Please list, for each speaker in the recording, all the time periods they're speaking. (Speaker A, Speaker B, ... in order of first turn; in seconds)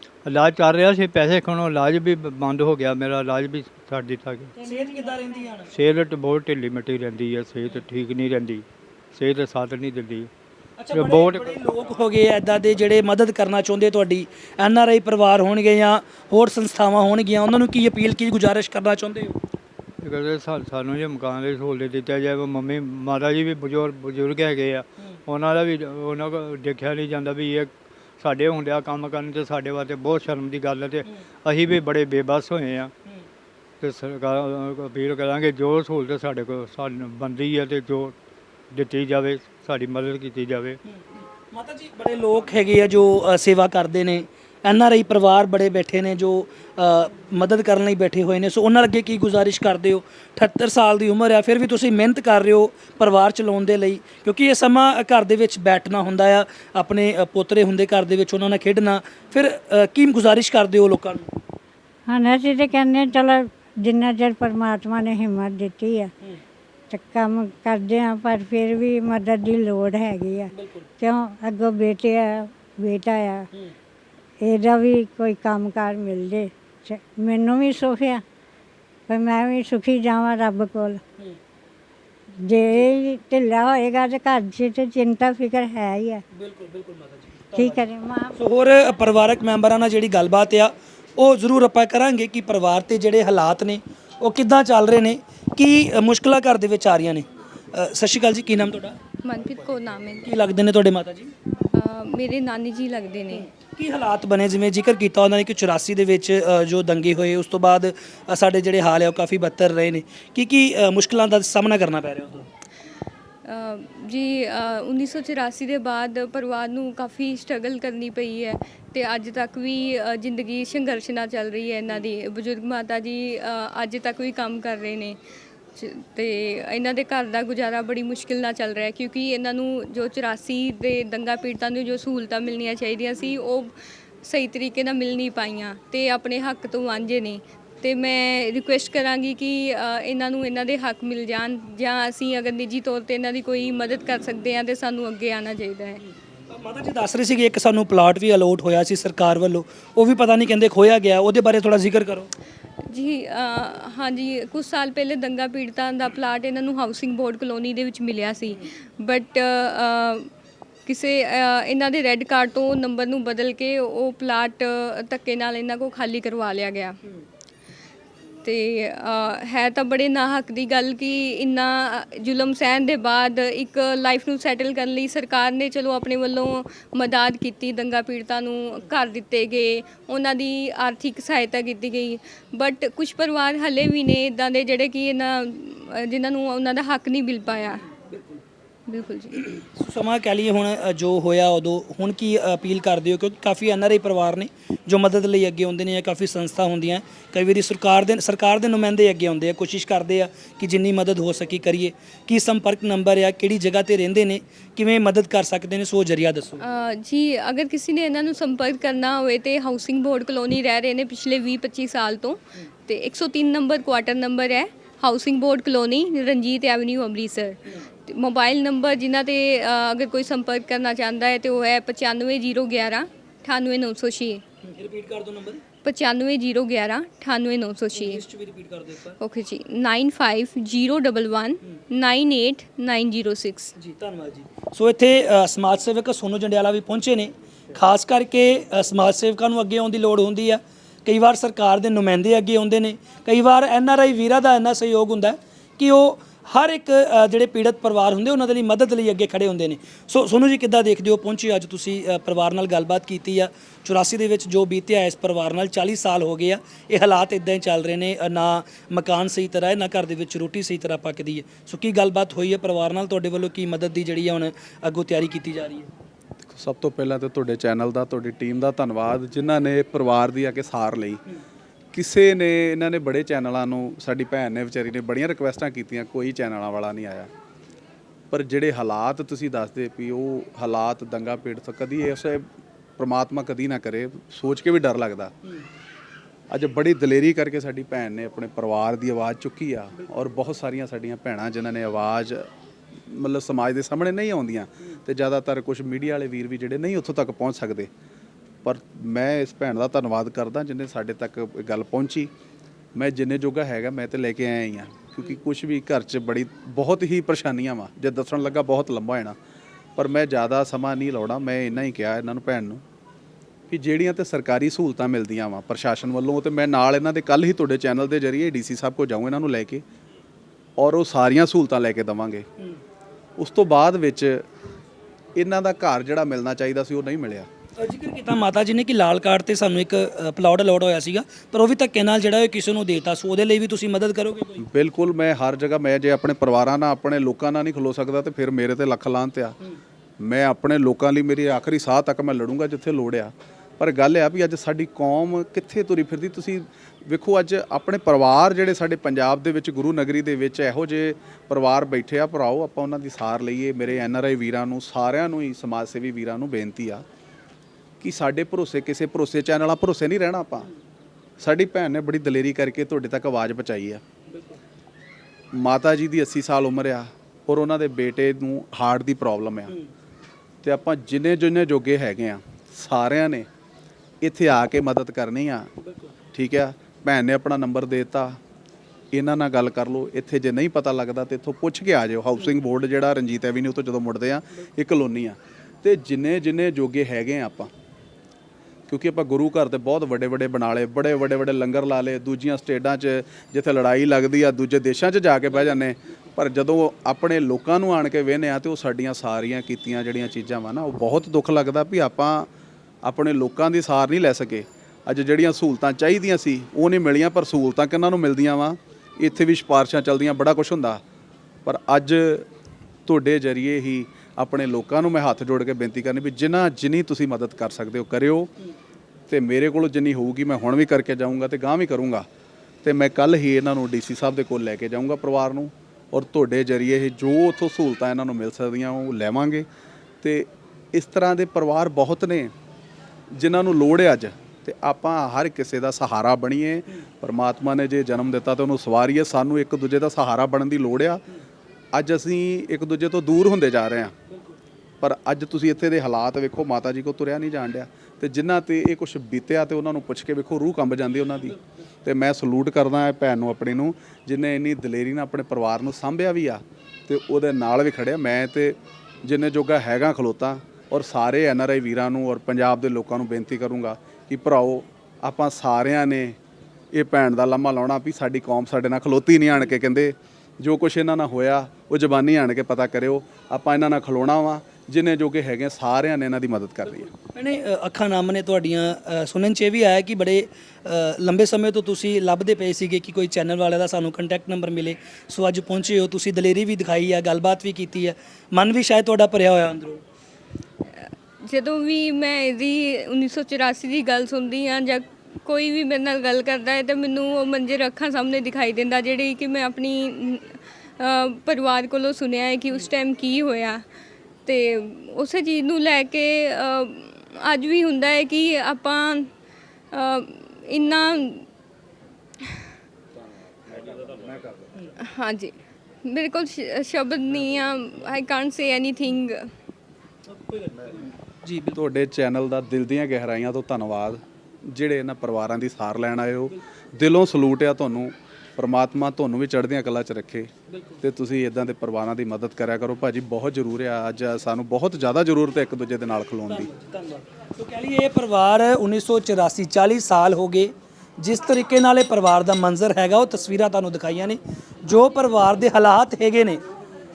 Speaker A: 0.2-4.5, 5.7-10.3, 10.9-11.6, 20.0-32.9, 33.8-38.1, 38.7-40.8
Speaker B: 4.6-5.5, 62.1-66.1, 66.9-73.5, 74.4-78.2, 79.1-81.0, 82.4-86.2, 87.5-88.4
Speaker C: 4.6-5.7, 10.8-19.4, 40.9-61.3, 70.5-70.9, 86.3-87.8, 88.4-99.0, 100.2-101.3, 103.3-112.5, 146.5-152.3, 187.9-188.4, 189.6-206.6, 224.6-225.6, 227.9-229.2, 233.8-265.9, 327.8-334.6, 364.3-364.6, 375.8-376.1, 477.1-490.0, 520.3-521.8, 530.7-531.0, 536.5-546.6
Speaker D: 99.2-100.3, 101.7-103.5, 113.5-125.2, 125.8-146.0, 152.9-160.3, 160.9-167.0, 168.4-187.8, 188.9-189.5, 206.6-224.4, 225.8-228.2, 229.2-233.7, 490.9-503.8, 504.5-509.3, 509.9-511.5, 515.0-519.5
Speaker E: 266.5-271.2, 271.9-277.3, 278.3-282.5, 283.0-285.3, 286.5-292.5, 293.1-297.9, 298.6-302.3, 302.9-309.4, 310.0-312.8, 313.7-319.8, 320.8-322.4, 323.4-324.5, 325.4-327.5, 334.7-339.6, 340.2-357.0, 358.0-360.7, 361.4-364.0, 365.5-369.7, 370.6-373.5, 374.2-375.7, 376.3-378.4, 379.1-387.7, 388.9-402.5, 403.0-411.0, 411.6-412.5, 413.1-418.5, 419.3-422.3, 422.8-429.7, 430.2-432.5, 433.3-441.2, 441.9-444.1, 445.0-466.4, 466.9-477.1, 513.8-514.5, 521.8-530.5, 531.0-536.7